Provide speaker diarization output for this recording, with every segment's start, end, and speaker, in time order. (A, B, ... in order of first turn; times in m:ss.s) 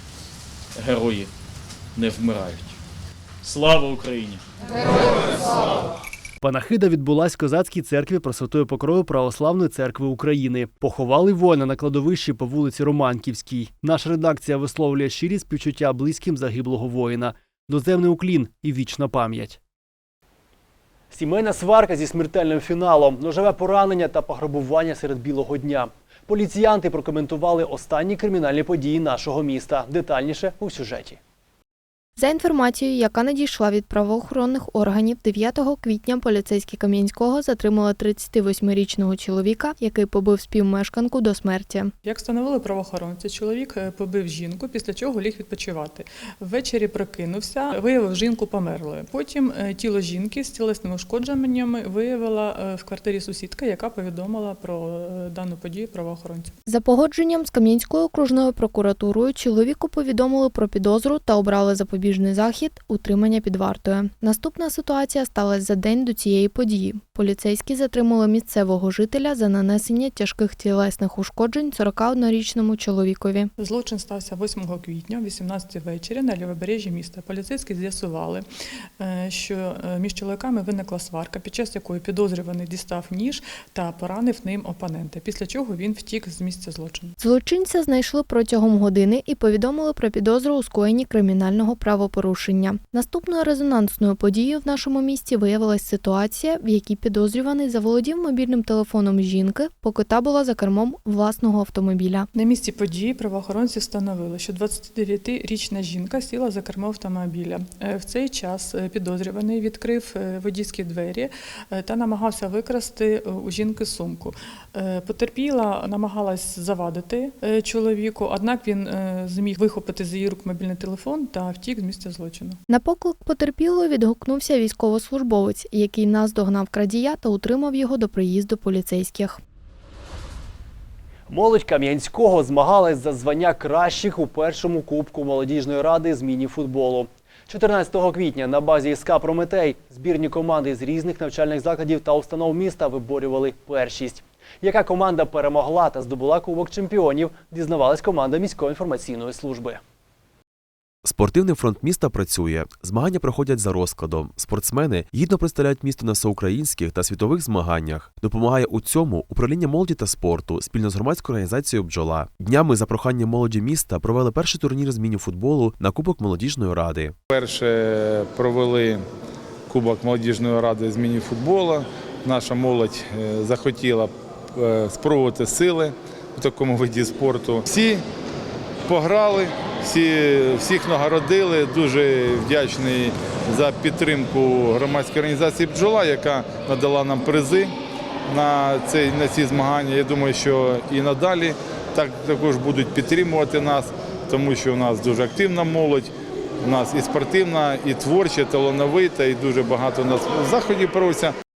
0:00.8-0:01.3 A
0:02.0-0:02.7 A
0:03.4-0:04.4 A
0:06.4-0:19.6 B
0:21.1-0:31.2 B
0:32.2-0:41.9 C
0:42.0-0:56.6 D
0:56.7-1:13.5 C
1:13.6-1:18.4 D
1:19.0-1:27.2 D
1:27.2-1:42.3 C
1:42.3-2:02.6 D
2:02.7-2:09.4 C
2:11.3-2:29.8 B
2:31.0-2:47.1 E
2:47.3-2:49.0 F
2:49.7-2:58.0 F
2:58.8-3:07.7 F
3:08.3-3:16.1 F
3:16.6-3:21.3 F